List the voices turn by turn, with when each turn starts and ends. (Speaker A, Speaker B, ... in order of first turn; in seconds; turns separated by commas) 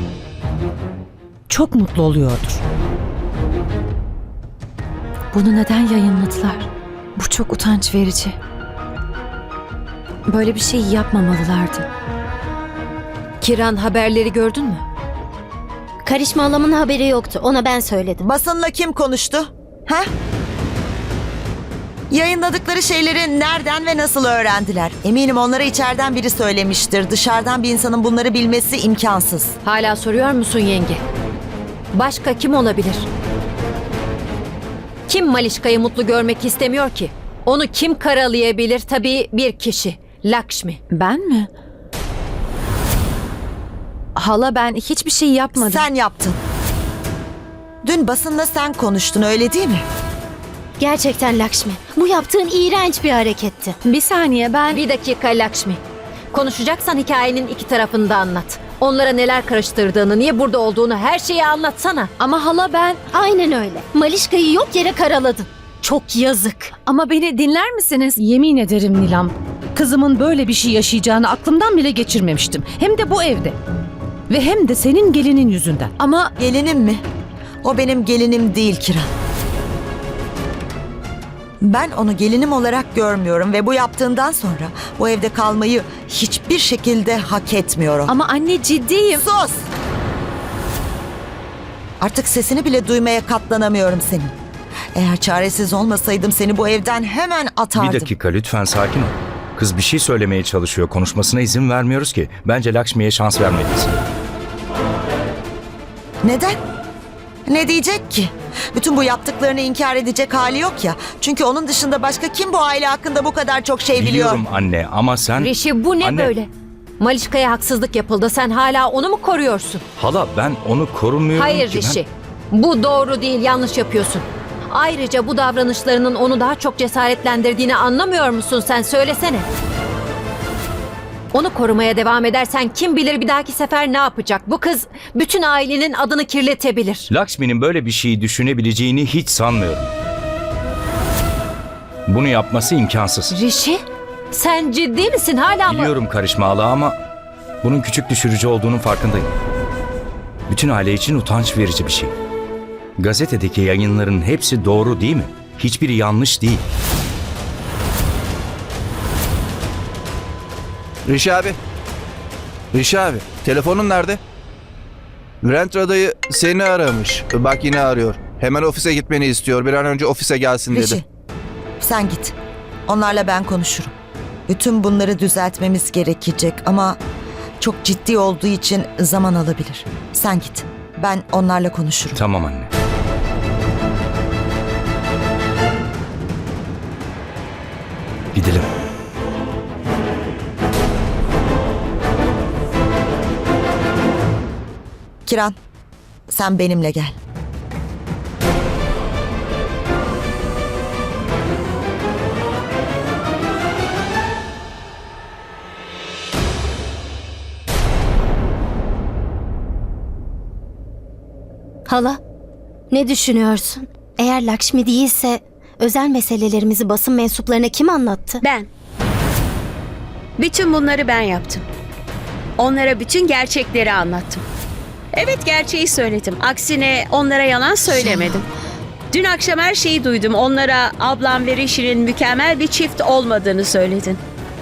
Speaker A: 1.5-2.6, Speaker B: 5.3-8.3, Speaker B: 10.3-11.8, Speaker C: 13.4-14.8, Speaker D: 16.0-18.2, Speaker E: 18.2-20.1, Speaker E: 22.1-29.5, Speaker C: 29.6-31.0, Speaker C: 31.9-33.0, Speaker C: 35.1-40.8, Speaker B: 40.9-41.5, Speaker B: 44.2-45.9, Speaker E: 45.5-46.4, Speaker E: 47.8-49.8, Speaker D: 50.8-53.7, Speaker B: 53.8-54.8, Speaker C: 54.7-55.8, Speaker C: 56.3-62.1, Speaker B: 62.2-63.0, Speaker D: 63.1-63.8, Speaker B: 66.8-68.2, Speaker A: 68.2-73.6, Speaker A: 74.3-75.9, Speaker B: 76.0-76.3, Speaker E: 76.4-77.0, Speaker E: 77.6-79.1, Speaker E: 81.6-88.1, Speaker B: 88.1-89.2, Speaker E: 89.1-89.7, Speaker E: 92.0-94.3, Speaker E: 94.9-98.1, Speaker F: 97.8-104.0, Speaker E: 106.2-106.6, Speaker E: 107.5-114.4, Speaker F: 113.9-116.3, Speaker C: 115.4-119.8, Speaker F: 120.0-122.0, Speaker C: 121.3-129.4, Speaker C: 131.3-137.1, Speaker F: 137.1-139.9, Speaker F: 142.1-143.3, Speaker C: 143.3-145.9, Speaker F: 145.7-146.9, Speaker F: 147.6-149.3, Speaker F: 150.5-152.1, Speaker F: 153.0-156.6, Speaker G: 161.1-161.6, Speaker G: 162.7-164.2, Speaker G: 165.4-171.0, Speaker E: 170.7-171.0, Speaker E: 171.8-172.3, Speaker E: 172.9-173.9, Speaker E: 174.5-177.0, Speaker E: 177.6-182.2, Speaker F: 182.2-182.7, Speaker F: 188.3-188.7, Speaker E: 195.2-195.6, Speaker E: 196.3-197.2, Speaker D: 211.9-212.2, Speaker D: 212.9-218.4, Speaker H: 218.4-218.7, Speaker H: 220.4-221.6, Speaker H: 222.6-224.4, Speaker H: 225.1-228.5, Speaker H: 229.1-234.2